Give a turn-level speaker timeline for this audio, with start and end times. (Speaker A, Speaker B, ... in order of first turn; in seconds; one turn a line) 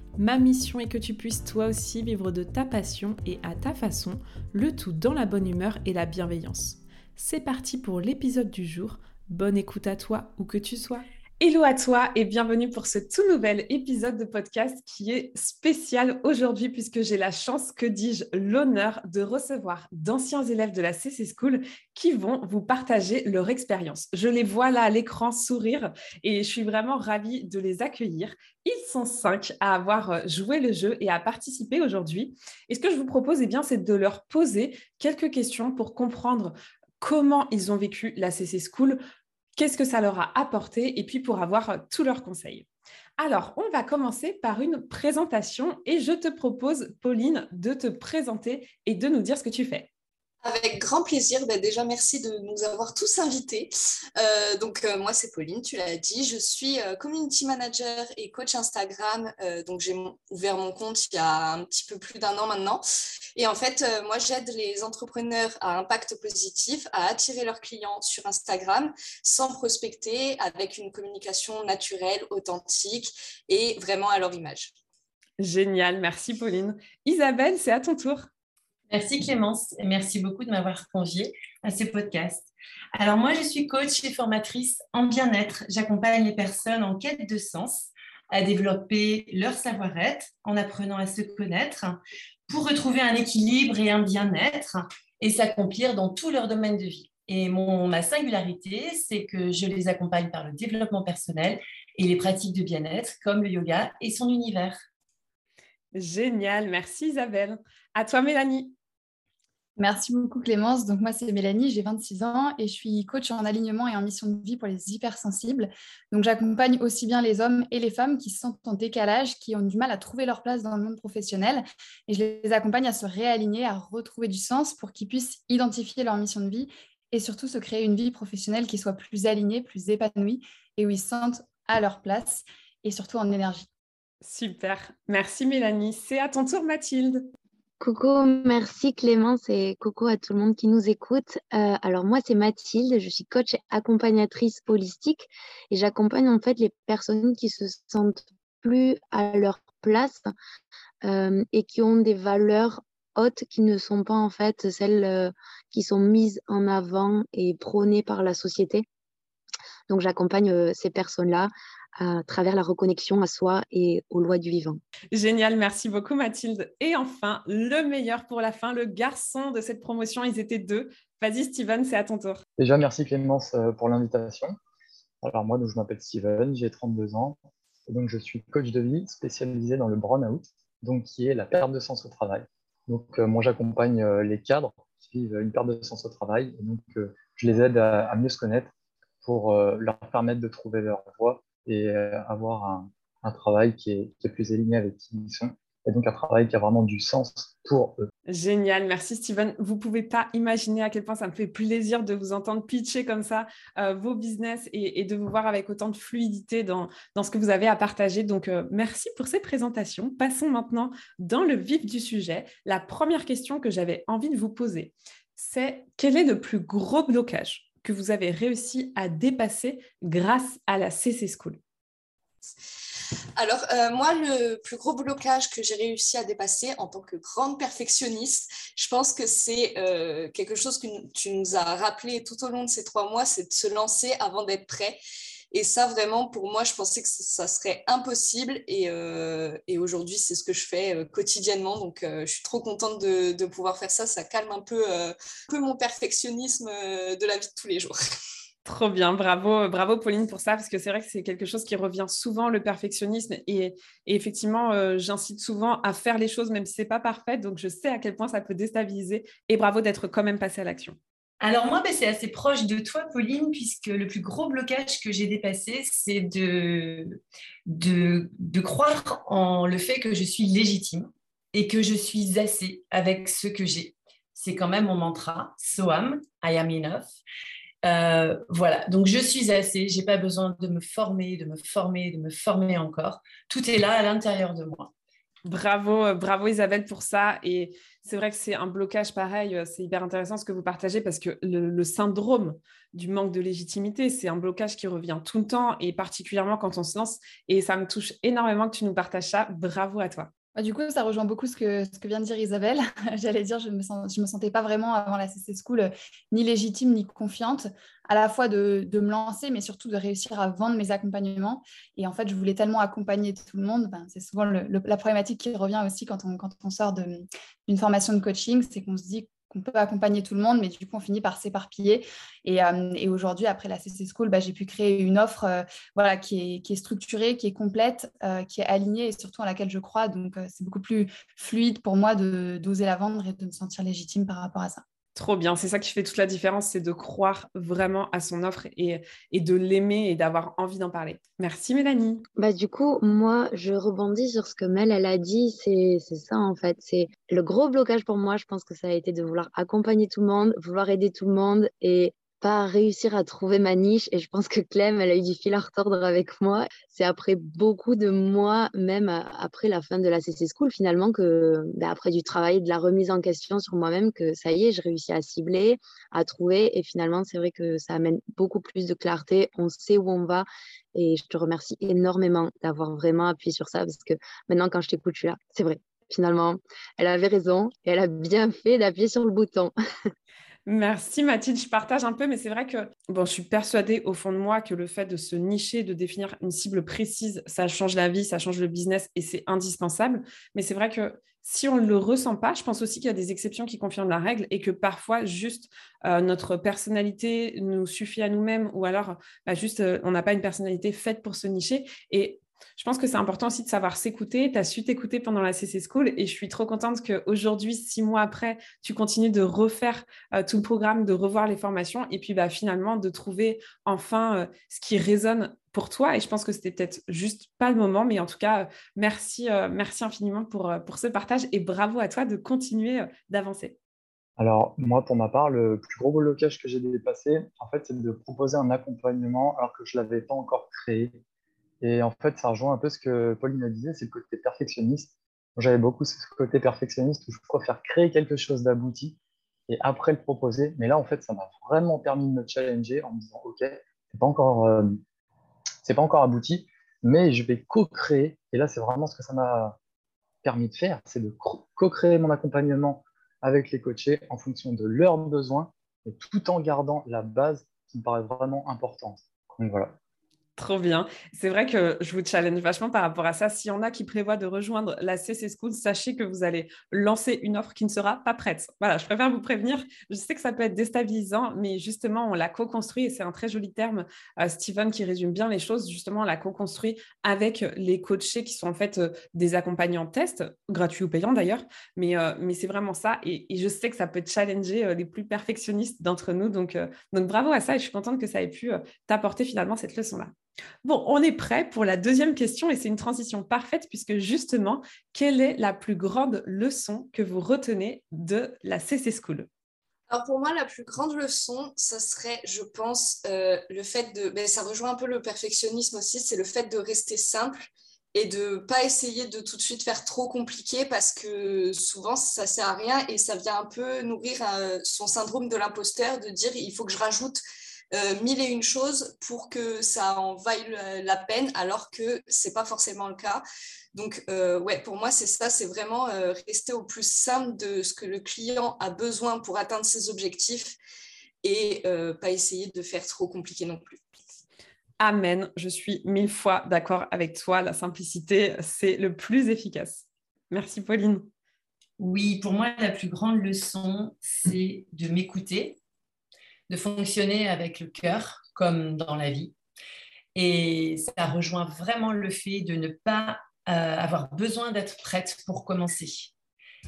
Speaker A: 0.1-39.0
Speaker A: 39.5-42.7
Speaker A: 43.2-49.9
Speaker B: 50.4-62.8
Speaker B: 63.4-74.7
Speaker A: 75.4-78.3
Speaker C: 78.9-104.8
Speaker A: 105.9-108.7
Speaker D: 109.8-133.7
Speaker A: 134.2-137.3
Speaker E: 137.8-150.3
Speaker E: 151.0-158.8
Speaker E: 159.9-164.8
Speaker A: 165.1-172.4
Speaker F: 172.6-174.6
Speaker F: 175.2-188.7
Speaker F: 189.2-198.1
Speaker A: 198.3-221.6
Speaker B: 223.4-235.0
Speaker B: 235.5-248.0
Speaker A: 248.7-261.0
Speaker C: 261.4-277.1
Speaker C: 277.8-284.9
Speaker A: 285.4-300.3
Speaker D: 300.6-334.8
Speaker A: 335.1-342.2
Speaker E: 342.4-379.7
Speaker A: 380.6-423.8
Speaker F: 424.4-431.2
Speaker F: 431.8-439.2
Speaker F: 439.7-445.0
Speaker F: 445.8-449.8
Speaker F: 450.4-460.0
Speaker A: 460.6-490.3
Speaker A: 490.8-499.5
Speaker B: 500.1-517.4
Speaker B: 517.9-523.4
Speaker B: 523.9-530.8
Speaker B: 531.4-534.0
Speaker A: 535.0-541.3
Speaker C: 542.0-545.8
Speaker C: 546.7-549.5
Speaker C: 550.3-556.3